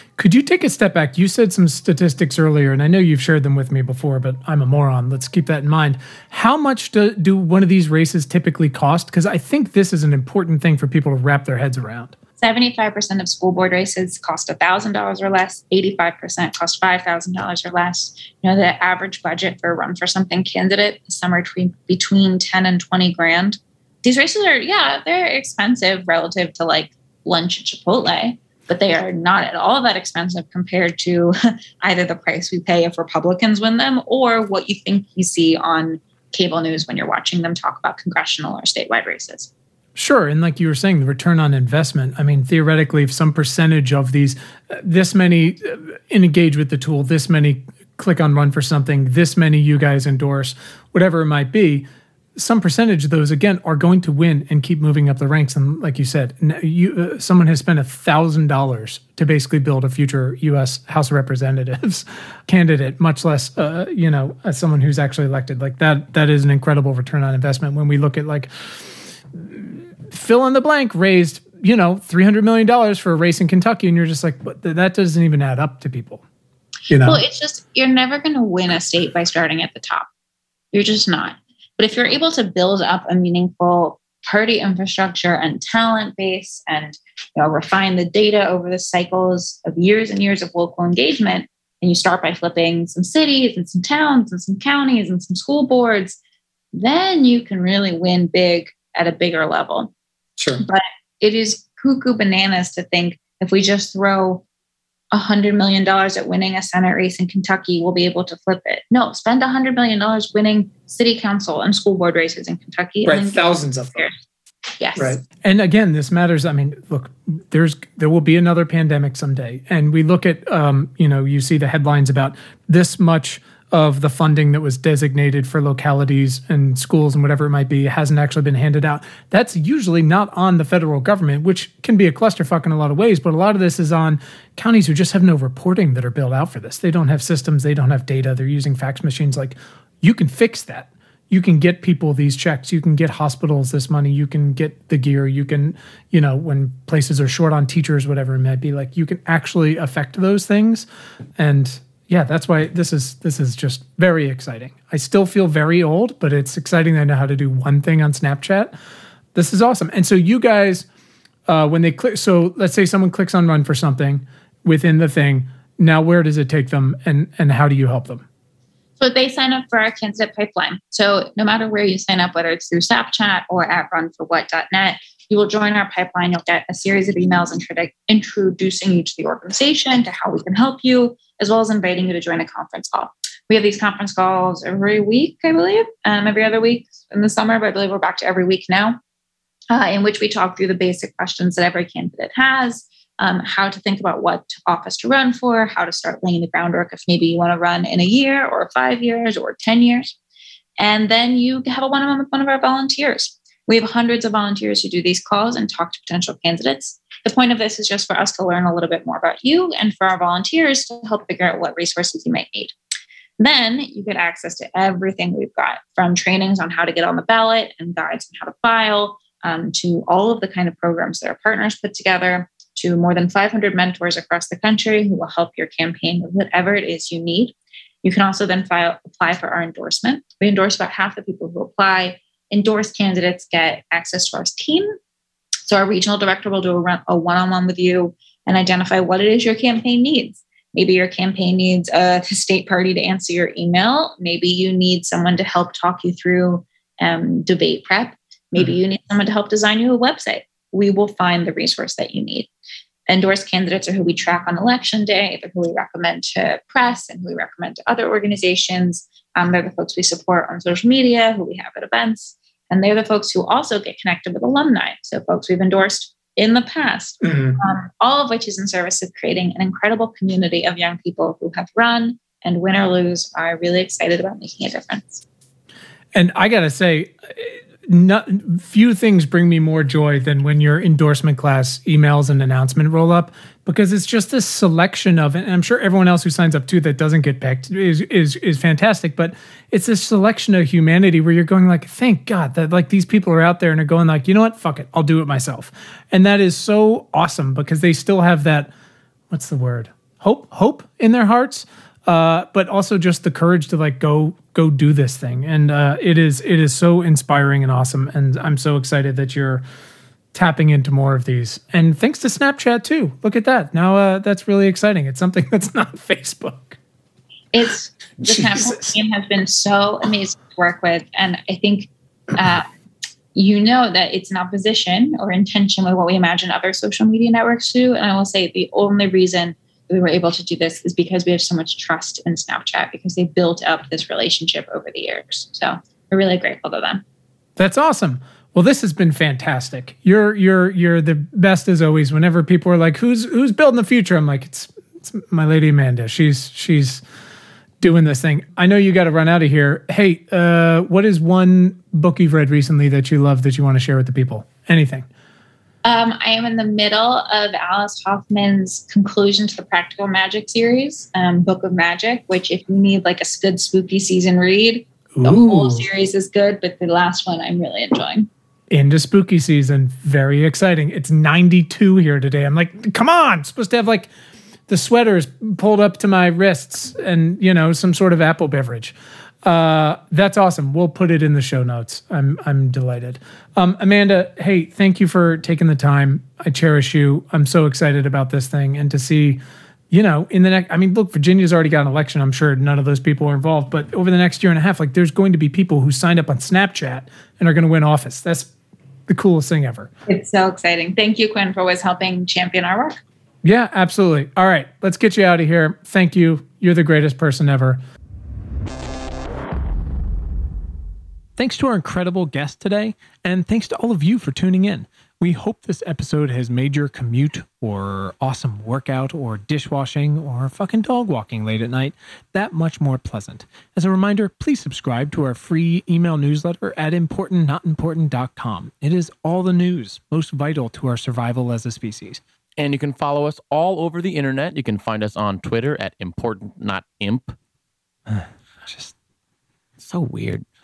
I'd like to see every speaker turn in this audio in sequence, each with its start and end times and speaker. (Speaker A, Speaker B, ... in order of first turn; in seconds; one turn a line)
Speaker A: 0.2-12.2
Speaker B: 12.4-39.5
Speaker A: 40.0-51.9
Speaker A: 52.4-76.2
Speaker A: 76.9-77.2
Speaker B: 77.0-80.1
Speaker B: 80.7-96.2
Speaker B: 96.7-99.9
Speaker A: 100.4-100.6
Speaker B: 100.6-104.4
Speaker B: 105.1-114.1
Speaker A: 113.0-114.0
Speaker B: 114.8-115.2
Speaker A: 115.0-150.9
Speaker A: 151.4-158.7
Speaker A: 159.3-160.9
Speaker A: 161.5-168.3
Speaker B: 169.0-189.0
Speaker B: 189.7-200.2
Speaker B: 200.8-212.8
Speaker B: 213.4-234.9
Speaker B: 235.7-252.5
Speaker B: 253.1-275.2
Speaker A: 267.3-267.6
Speaker A: 276.1-298.7
Speaker A: 299.3-309.6
Speaker A: 310.3-316.8
Speaker B: 317.5-322.7
Speaker A: 318.2-318.9
Speaker B: 323.4-337.0
Speaker A: 337.6-347.0
Speaker A: 347.8-355.1
Speaker B: 355.8-368.3
Speaker A: 365.1-365.9
Speaker A: 368.7-374.1
Speaker A: 374.7-398.5
Speaker A: 399.1-399.9
Speaker B: 400.1-403.0
Speaker A: 403.4-407.8
Speaker A: 411.4-432.2
Speaker C: 432.6-437.4
Speaker A: 438.1-438.9
Speaker C: 439.8-440.5